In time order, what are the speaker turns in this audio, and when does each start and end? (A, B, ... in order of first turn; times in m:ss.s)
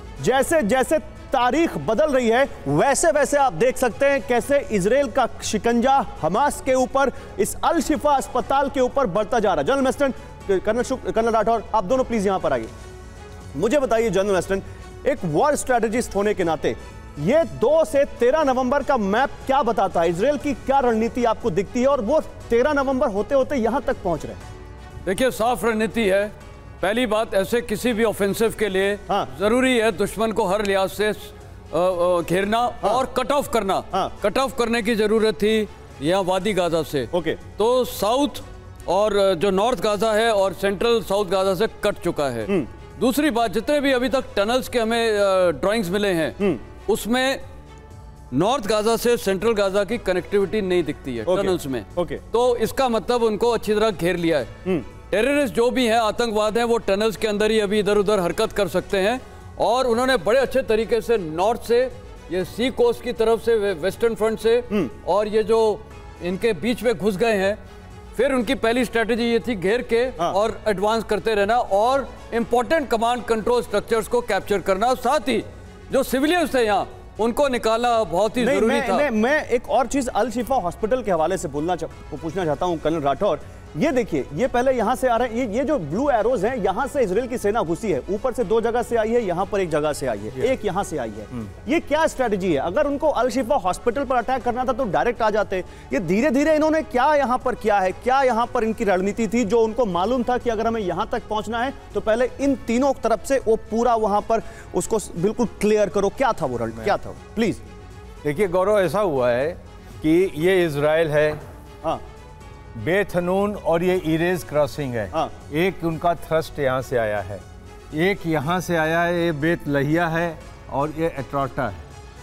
0:00.2-0:12.7 A
0:13.5-0:24.4 A
0:25.0-0:47.4 B
0:37.1-0:37.4 A
0:48.3-0:54.5 B
0:51.3-0:52.2 A
0:55.0-1:07.6 B
1:08.1-1:19.1 B
1:18.4-1:47.6 A
1:48.2-1:51.4 C
1:52.8-2:01.8 C